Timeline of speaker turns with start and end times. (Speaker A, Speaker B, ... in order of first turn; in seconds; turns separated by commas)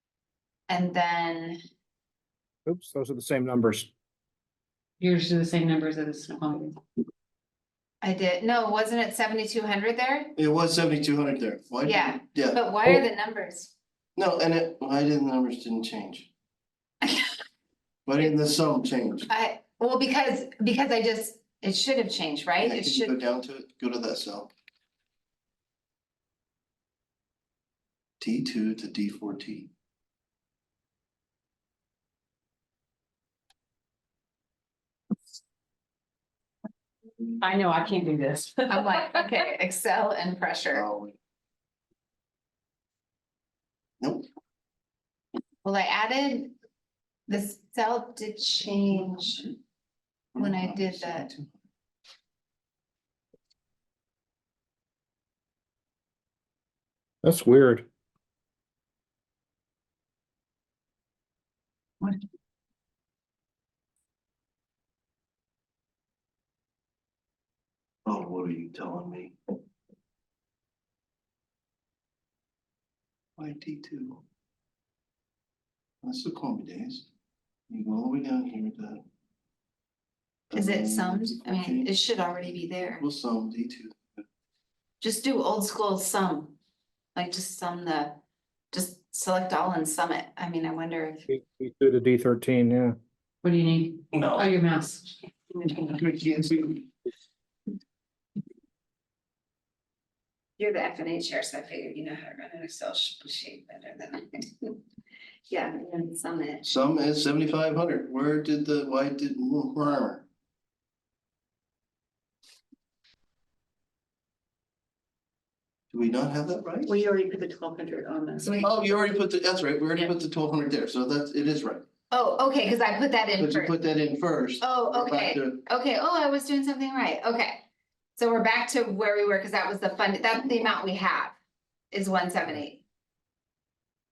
Speaker A: 0.7-1.6, Speaker B: 2.7-3.9, Speaker C: 5.0-6.8, Speaker A: 8.0-10.3, Speaker D: 10.4-13.0, Speaker A: 11.8-13.7, Speaker D: 14.2-16.3, Speaker A: 17.0-17.3, Speaker D: 18.1-19.3, Speaker A: 19.3-23.1, Speaker D: 22.6-24.5, Speaker D: 28.2-29.7, Speaker C: 37.4-39.3, Speaker A: 38.7-40.9, Speaker D: 40.7-41.1, Speaker D: 44.0-44.3, Speaker A: 45.6-46.5, Speaker A: 47.3-49.5, Speaker D: 50.4-51.6, Speaker A: 50.4-51.3, Speaker B: 57.2-57.9, Speaker D: 68.0-69.3, Speaker D: 73.4-74.2, Speaker D: 76.0-77.1, Speaker D: 77.7-79.0, Speaker D: 80.5-81.9, Speaker A: 80.5-83.0, Speaker D: 83.0-84.2, Speaker A: 85.0-86.6, Speaker A: 87.2-88.2, Speaker A: 88.7-91.3, Speaker B: 91.3-93.0, Speaker C: 93.4-96.0, Speaker D: 94.1-94.5, Speaker D: 95.9-96.9, Speaker A: 100.6-104.8, Speaker A: 105.5-106.7, Speaker D: 106.6-110.2, Speaker D: 115.9-116.9, Speaker C: 116.9-118.7, Speaker A: 118.4-118.7, Speaker D: 118.6-121.8, Speaker A: 122.1-123.7, Speaker D: 123.4-125.6, Speaker A: 124.6-127.6, Speaker A: 128.2-131.4, Speaker A: 131.9-132.8